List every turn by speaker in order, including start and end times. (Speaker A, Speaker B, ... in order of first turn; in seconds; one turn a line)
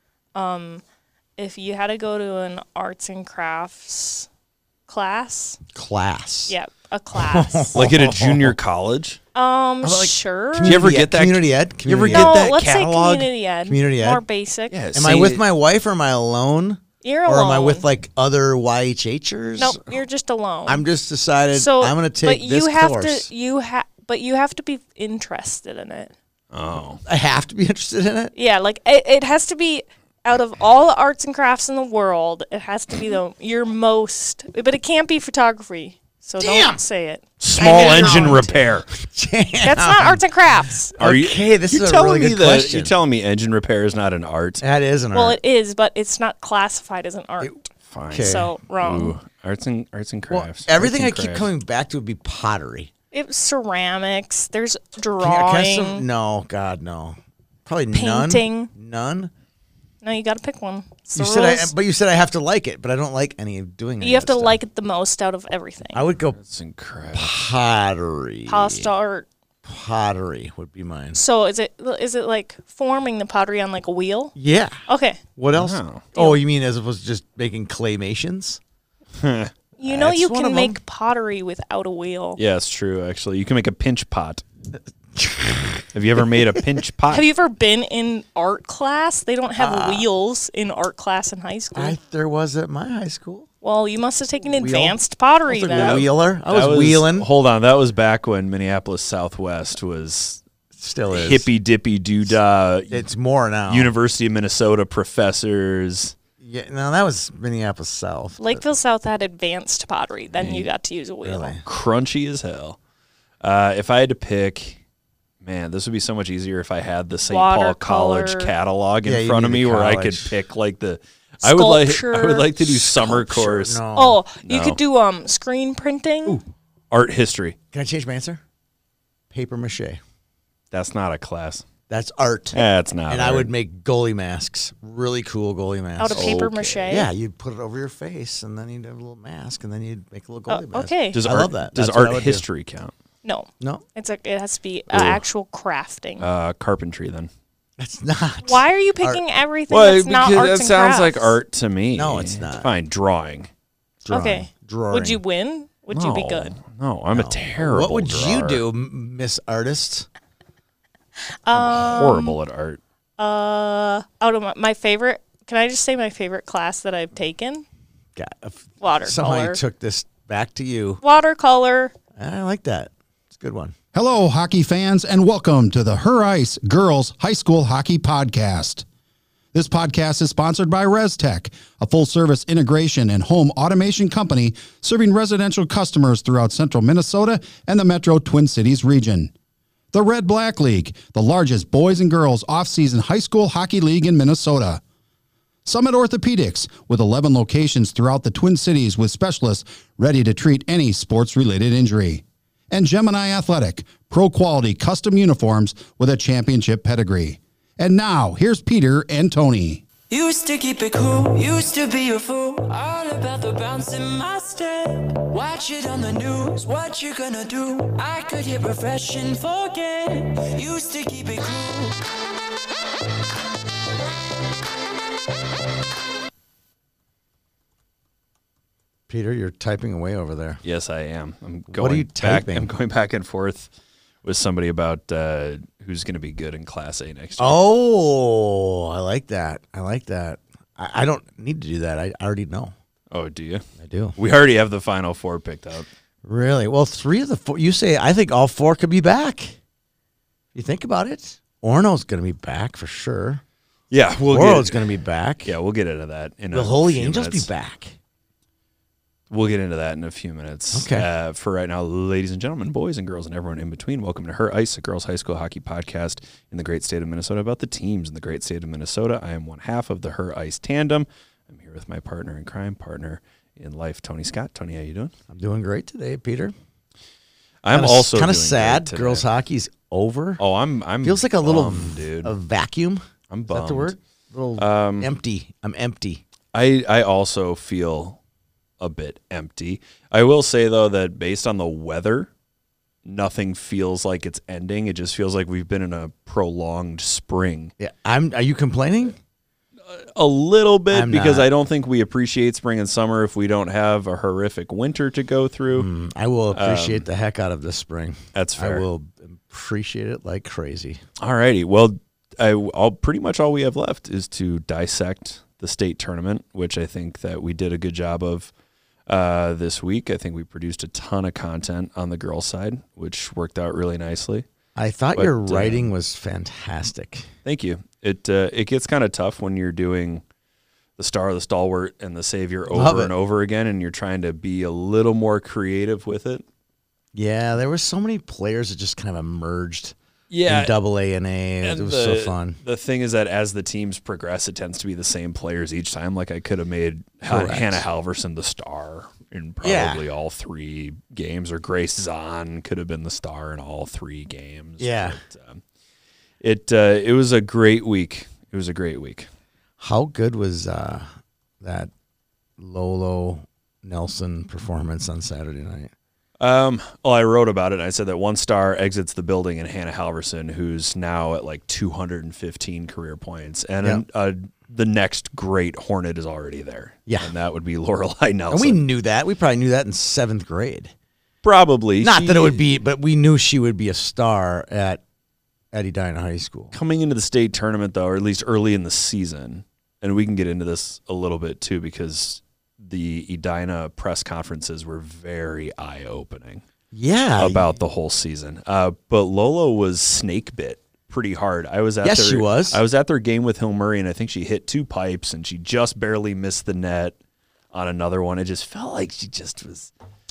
Speaker A: 0.3-0.8
Speaker A: 1.4-4.3
Speaker A: 4.9-5.6
Speaker B: 5.8-6.5
Speaker A: 6.5-7.7
Speaker B: 7.2-8.6
Speaker C: 7.7-9.2
Speaker A: 9.3-10.8
Speaker B: 9.8-12.5
Speaker C: 10.6-13.3
Speaker A: 12.1-14.8
Speaker B: 13.6-14.2
Speaker C: 14.7-15.4
Speaker B: 14.9-20.0
Speaker A: 17.0-17.9
Speaker A: 19.6-20.9
Speaker B: 20.7-23.3
Speaker A: 21.5-26.1
Speaker C: 26.5-27.0
Speaker B: 27.1-28.3
Speaker A: 28.3-38.5
Speaker B: 36.4-36.8
Speaker C: 37.4-38.9
Speaker B: 37.5-40.2
Speaker A: 39.6-40.9
Speaker B: 40.9-42.9
Speaker C: 41.0-44.6
Speaker B: 44.6-45.4
Speaker A: 45.1-47.6
Speaker C: 47.9-51.5
Speaker B: 48.1-48.4
Speaker A: 48.2-49.2
Speaker B: 50.3-52.9
Speaker A: 53.1-56.0
Speaker B: 55.2-59.3
Speaker A: 57.9-58.7
Speaker A: 60.0-61.7
Speaker B: 61.1-64.6
Speaker A: 64.0-66.0
Speaker B: 65.9-66.4
Speaker C: 66.4-67.4
Speaker B: 67.1-68.9
Speaker A: 68.5-69.3
Speaker B: 69.7-71.2
Speaker A: 71.1-74.3
Speaker B: 74.4-74.8
Speaker A: 74.9-75.2
Speaker B: 75.4-78.6
Speaker C: 75.5-76.1
Speaker A: 76.2-76.4
Speaker C: 79.2-79.5
Speaker A: 79.8-82.4
Speaker B: 79.8-80.8
Speaker C: 82.4-84.4
Speaker B: 85.2-85.9
Speaker C: 85.9-87.2
Speaker A: 87.1-92.0
Speaker B: 89.6-90.1
Speaker B: 91.8-93.5
Speaker A: 93.6-96.0
Speaker B: 94.5-97.3
Speaker C: 95.8-100.4
Speaker B: 100.8-101.5
Speaker C: 101.1-103.0
Speaker B: 102.9-103.9
Speaker C: 103.7-106.2
Speaker B: 106.4-108.7
Speaker A: 108.4-111.6
Speaker C: 110.4-110.7
Speaker B: 111.2-111.6
Speaker C: 111.7-112.8
Speaker C: 113.4-114.8
Speaker C: 115.4-123.8
Speaker A: 117.3-118.5
Speaker B: 119.0-120.3
Speaker A: 121.4-122.5
Speaker B: 122.9-124.2
Speaker A: 124.0-126.4
Speaker C: 124.4-124.8
Speaker C: 126.9-127.5
Speaker B: 127.7-128.4
Speaker B: 129.3-130.0
Speaker C: 130.7-131.7
Speaker B: 131.9-142.4
Speaker C: 132.5-133.5
Speaker A: 136.0-137.1
Speaker C: 136.1-137.0
Speaker A: 140.5-141.2
Speaker C: 141.1-142.9
Speaker A: 143.2-146.3
Speaker C: 144.9-145.2
Speaker C: 146.2-147.3
Speaker B: 147.8-149.2
Speaker A: 148.4-151.3
Speaker C: 149.7-153.5
Speaker B: 151.9-152.7
Speaker B: 154.0-155.2
Speaker A: 154.1-156.5
Speaker C: 155.9-158.6
Speaker B: 157.1-160.1
Speaker A: 161.4-162.3
Speaker C: 161.5-162.8
Speaker A: 163.2-167.6
Speaker B: 168.2-171.0
Speaker A: 168.8-169.6
Speaker A: 171.0-171.9
Speaker B: 172.2-173.8
Speaker D: 173.9-178.8
Speaker D: 179.5-189.3
Speaker D: 189.9-194.8
Speaker D: 195.6-209.8
Speaker E: 210.1-222.0
Speaker B: 229.1-230.6
Speaker C: 230.6-233.7
Speaker B: 231.7-232.7
Speaker C: 234.2-237.6
Speaker B: 237.4-242.7
Speaker C: 243.1-243.6
Speaker B: 243.8-244.1
Speaker C: 244.2-245.9
Speaker B: 246.2-249.6
Speaker B: 250.5-253.4
Speaker C: 253.9-254.8
Speaker B: 254.3-255.5
Speaker C: 255.4-257.5
Speaker B: 256.5-258.0
Speaker C: 259.3-275.1
Speaker B: 260.7-261.1
Speaker B: 275.3-276.5
Speaker C: 277.6-279.2
Speaker B: 277.7-280.4
Speaker C: 280.4-282.3
Speaker B: 281.0-286.2
Speaker C: 283.3-284.0
Speaker C: 284.6-285.1
Speaker C: 286.5-288.2
Speaker C: 288.8-292.3
Speaker C: 293.1-297.7
Speaker B: 297.8-299.2
Speaker C: 299.9-305.9
Speaker B: 300.9-301.5
Speaker B: 305.8-311.0
Speaker C: 306.5-307.1
Speaker C: 308.3-308.9
Speaker C: 311.2-318.5
Speaker C: 319.1-324.4
Speaker B: 324.8-327.3
Speaker C: 325.1-325.9
Speaker C: 327.4-330.2
Speaker C: 331.0-336.4
Speaker B: 332.7-333.1
Speaker B: 337.1-339.9
Speaker C: 340.3-340.7
Speaker B: 340.5-342.6
Speaker C: 341.6-355.6
Speaker B: 347.3-347.9
Speaker B: 349.6-350.0
Speaker B: 354.8-355.2
Speaker C: 356.4-359.3
Speaker B: 359.8-361.1
Speaker B: 361.6-361.9
Speaker B: 362.6-365.9
Speaker C: 366.4-378.8
Speaker B: 378.5-380.9
Speaker C: 381.4-382.6
Speaker B: 382.0-385.0
Speaker B: 385.7-386.7
Speaker C: 386.7-396.6
Speaker B: 396.9-397.7
Speaker C: 397.4-407.1
Speaker B: 402.0-402.8
Speaker C: 407.7-409.9